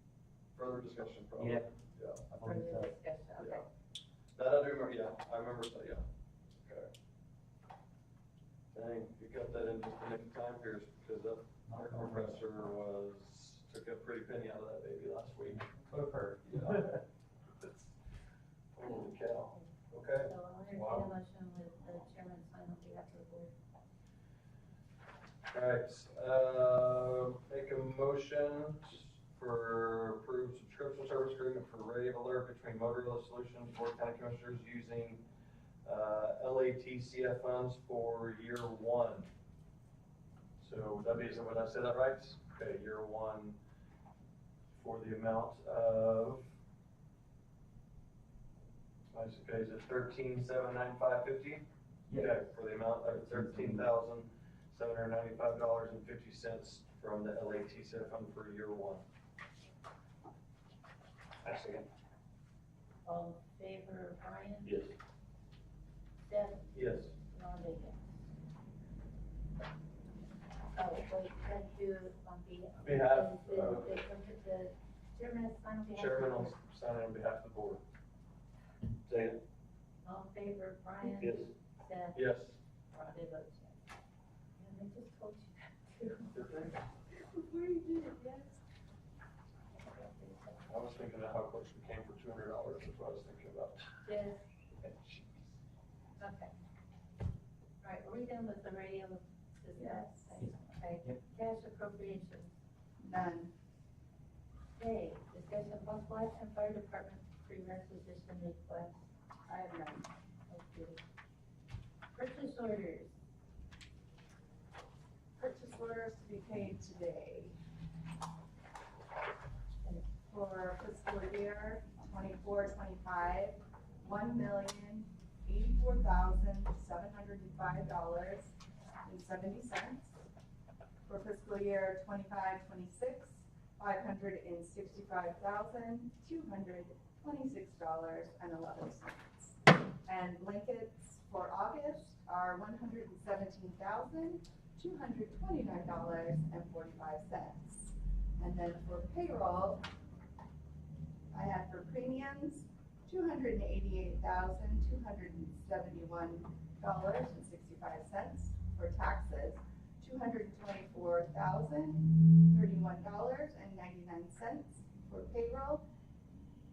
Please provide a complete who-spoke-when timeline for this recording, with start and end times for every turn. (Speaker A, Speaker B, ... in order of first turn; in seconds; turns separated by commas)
Speaker A: 0.6-2.2, Speaker B: 1.4-1.7, Speaker B: 2.3-2.9, Speaker C: 2.4-3.7, Speaker A: 3.4-3.6, Speaker A: 4.4-6.1, Speaker A: 6.6-6.9, Speaker A: 8.7-15.7, Speaker B: 11.7-12.4, Speaker B: 15.6-16.6, Speaker A: 16.4-17.0, Speaker A: 18.8-21.1, Speaker C: 19.5-23.5, Speaker A: 25.5-35.2, Speaker A: 35.8-39.3, Speaker A: 40.6-43.6, Speaker A: 44.7-46.5, Speaker A: 49.1-59.0, Speaker B: 52.1-52.5, Speaker B: 53.1-53.9, Speaker A: 61.4-61.9, Speaker C: 63.0-64.8, Speaker A: 64.6-65.0, Speaker C: 66.2-68.1, Speaker A: 66.7-67.1, Speaker C: 70.8-76.6, Speaker A: 72.8-74.0, Speaker A: 75.9-77.9, Speaker A: 79.1-79.4, Speaker C: 80.0-82.2, Speaker A: 81.0-81.5, Speaker A: 82.1-82.6, Speaker C: 82.9-83.8, Speaker C: 84.6-86.3, Speaker A: 86.3-86.8, Speaker C: 87.4-88.3, Speaker D: 87.6-88.5, Speaker C: 89.7-90.7, Speaker A: 90.7-93.9, Speaker C: 94.1-94.4, Speaker A: 94.8-95.5, Speaker C: 96.2-96.5, Speaker C: 97.8-102.5, Speaker D: 99.8-100.5, Speaker B: 100.4-101.2, Speaker D: 103.0-103.5, Speaker C: 104.8-109.0, Speaker D: 109.5-110.1, Speaker C: 110.5-111.0, Speaker C: 112.1-113.2, Speaker D: 115.4-117.5, Speaker D: 120.3-130.2, Speaker D: 131.1-149.8, Speaker D: 151.3-165.8